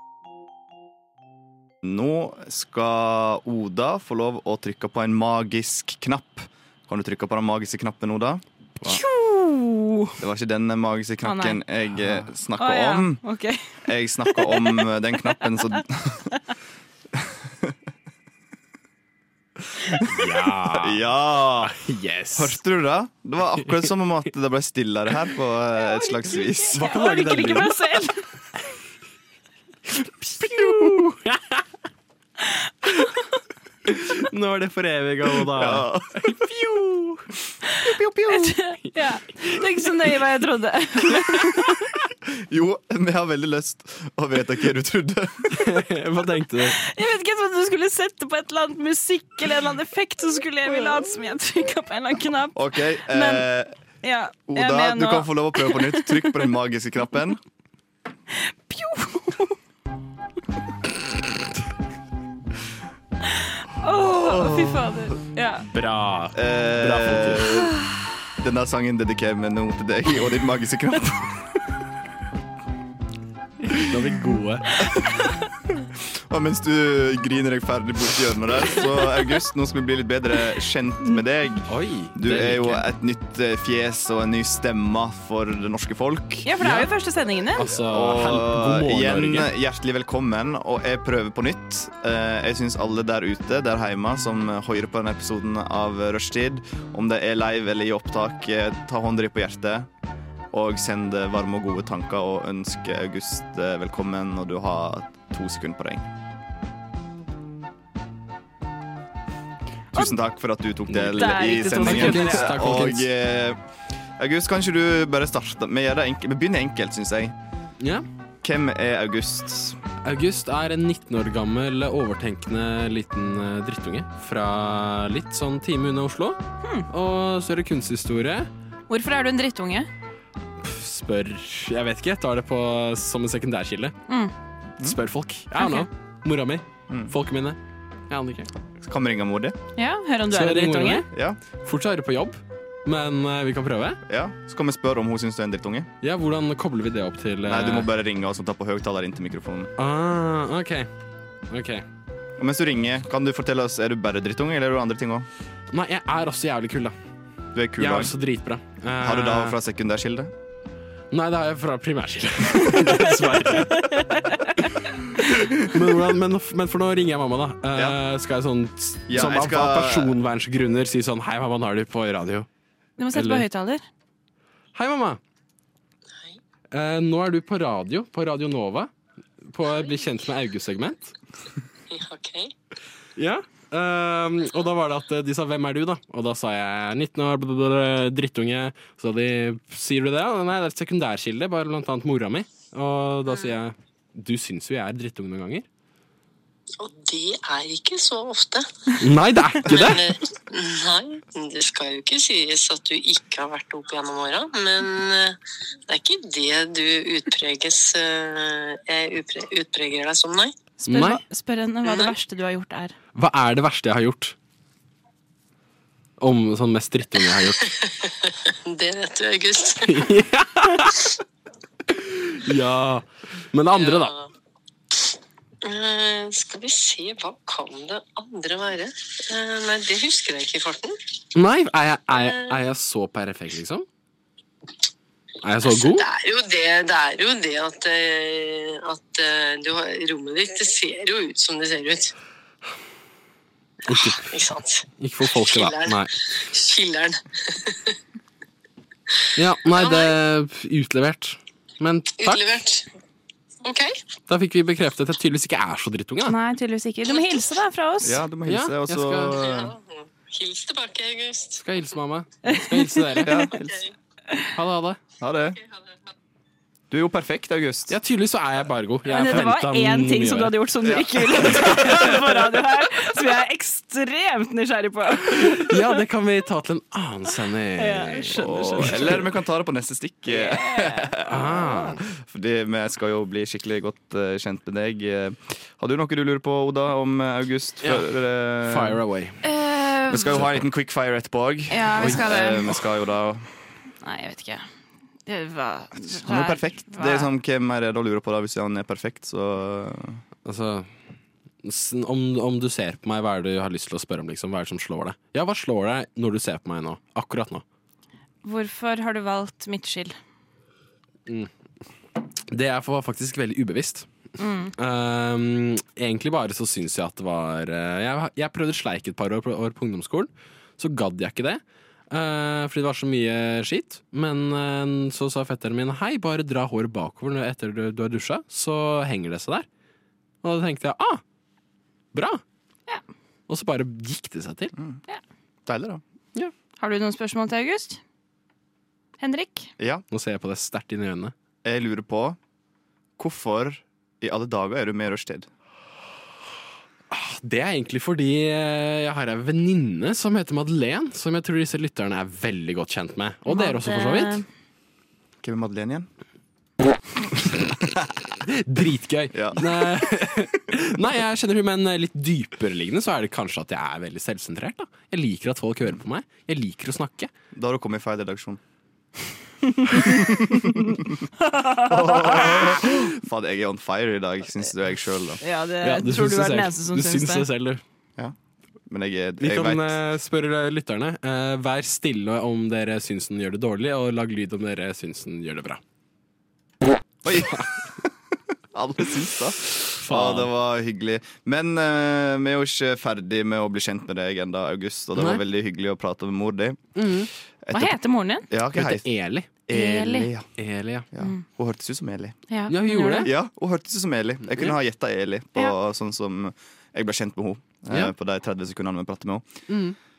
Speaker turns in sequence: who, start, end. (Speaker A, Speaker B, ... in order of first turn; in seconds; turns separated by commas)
Speaker A: 1.8-9.0, Speaker B: 8.8-10.2, Speaker A: 10.2-13.2, Speaker B: 11.2-11.6, Speaker B: 12.6-14.9, Speaker A: 13.8-16.3, Speaker A: 17.1-17.8, Speaker A: 19.8-21.8, Speaker C: 20.1-22.6, Speaker A: 22.4-26.9, Speaker B: 25.9-28.2, Speaker C: 26.7-27.9, Speaker C: 30.2-31.6, Speaker A: 30.6-31.0, Speaker B: 32.9-33.2, Speaker C: 33.9-37.3, Speaker A: 35.5-36.5, Speaker A: 37.7-38.6, Speaker B: 38.3-41.9, Speaker A: 42.3-45.9, Speaker C: 45.5-46.8, Speaker B: 46.7-53.5, Speaker A: 52.5-53.7, Speaker B: 54.0-56.4, Speaker A: 54.5-57.4, Speaker B: 58.3-59.6, Speaker B: 63.2-65.7, Speaker A: 64.1-65.1, Speaker C: 65.7-67.6, Speaker A: 66.3-67.7, Speaker B: 67.5-67.9, Speaker A: 68.4-71.5, Speaker C: 73.7-74.8, Speaker A: 76.2-86.5, Speaker C: 81.7-82.8, Speaker B: 86.4-87.6, Speaker C: 86.6-86.9, Speaker C: 87.6-89.5, Speaker A: 87.7-99.9, Speaker A: 100.5-106.1, Speaker A: 109.9-113.6, Speaker C: 110.9-113.1, Speaker B: 111.1-112.6, Speaker A: 114.2-117.3, Speaker C: 117.8-118.0, Speaker A: 118.4-119.8, Speaker C: 120.0-128.5, Speaker B: 128.9-129.9, Speaker C: 130.6-133.9, Speaker C: 134.8-137.6, Speaker B: 135.6-135.9, Speaker C: 138.1-138.5, Speaker A: 138.8-139.6, Speaker B: 139.8-141.1, Speaker C: 140.3-141.1, Speaker A: 141.1-141.4, Speaker C: 141.6-144.0, Speaker A: 144.1-145.9, Speaker C: 146.0-147.9, Speaker A: 147.5-149.7, Speaker C: 149.8-150.9, Speaker C: 151.5-151.8, Speaker A: 152.4-155.3, Speaker C: 155.7-156.9, Speaker A: 157.5-158.1, Speaker C: 157.8-159.6, Speaker A: 159.0-160.3, Speaker C: 161.1-172.5, Speaker B: 163.6-164.7, Speaker A: 169.1-170.1, Speaker B: 173.0-173.8, Speaker C: 173.2-173.5, Speaker C: 174.8-175.2, Speaker C: 176.7-178.9, Speaker C: 179.5-181.1, Speaker D: 179.7-180.0, Speaker D: 181.9-182.5, Speaker C: 183.2-195.7, Speaker D: 196.8-199.0, Speaker C: 199.0-200.1, Speaker D: 199.6-210.6, Speaker B: 210.8-213.0, Speaker C: 210.9-211.2, Speaker D: 211.9-212.1, Speaker C: 213.2-214.3, Speaker C: 216.2-217.7, Speaker D: 217.7-220.2, Speaker C: 219.9-221.1, Speaker C: 221.9-224.1, Speaker D: 223.7-224.3, Speaker D: 225.6-231.0, Speaker C: 231.3-233.8, Speaker D: 232.1-232.6, Speaker C: 235.4-236.1, Speaker D: 235.6-242.1, Speaker C: 243.9-244.4, Speaker D: 243.9-248.0, Speaker C: 245.0-246.2, Speaker C: 249.4-252.5, Speaker D: 249.7-250.2, Speaker D: 252.2-252.9, Speaker D: 253.6-254.0, Speaker C: 254.3-256.4, Speaker B: 256.2-258.2, Speaker A: 258.0-259.8, Speaker C: 258.5-259.4, Speaker D: 259.3-261.6, Speaker C: 261.6-263.5, Speaker B: 262.4-263.5, Speaker A: 263.2-263.9, Speaker C: 264.5-265.0, Speaker A: 265.2-265.6, Speaker A: 266.9-268.0, Speaker C: 267.9-270.6, Speaker B: 269.1-275.9, Speaker A: 270.8-272.0, Speaker C: 275.3-279.2, Speaker B: 277.8-279.2, Speaker A: 278.3-289.0, Speaker B: 280.3-281.1, Speaker C: 281.3-282.0, Speaker C: 287.8-289.4, Speaker B: 289.4-290.4, Speaker A: 290.1-293.5, Speaker C: 290.4-290.6, Speaker B: 291.7-292.7, Speaker C: 292.0-292.8, Speaker B: 294.0-294.6, Speaker B: 295.3-297.3, Speaker A: 296.0-300.2, Speaker C: 300.4-300.9, Speaker C: 301.6-307.6, Speaker B: 308.4-310.1, Speaker C: 312.5-314.1, Speaker B: 314.4-314.7, Speaker C: 314.8-329.7, Speaker C: 330.4-331.2, Speaker C: 332.1-332.4, Speaker C: 333.5-334.7, Speaker A: 335.7-336.0, Speaker B: 336.8-338.0, Speaker B: 339.2-339.7, Speaker C: 340.1-341.3, Speaker A: 341.6-342.4, Speaker A: 343.2-345.5, Speaker C: 347.1-354.4, Speaker B: 353.5-354.4, Speaker A: 355.4-356.1, Speaker A: 357.8-358.1, Speaker C: 358.4-367.3, Speaker A: 359.3-359.7, Speaker A: 367.5-368.6, Speaker B: 369.7-370.7, Speaker A: 370.0-371.2, Speaker B: 371.4-372.8, Speaker A: 371.8-375.4, Speaker B: 375.4-377.5, Speaker C: 375.8-377.8, Speaker A: 378.9-380.0, Speaker C: 379.4-385.8, Speaker A: 387.2-388.1, Speaker A: 388.7-397.0, Speaker C: 389.9-390.5, Speaker C: 395.2-395.4, Speaker C: 396.9-397.3, Speaker A: 397.6-398.0, Speaker B: 397.7-398.5, Speaker A: 398.5-399.1, Speaker C: 398.7-399.5, Speaker A: 399.7-400.5, Speaker B: 399.7-400.3, Speaker C: 400.6-401.1, Speaker A: 401.1-402.4, Speaker B: 402.5-403.3, Speaker C: 402.7-403.3, Speaker A: 403.2-409.5, Speaker C: 409.7-410.0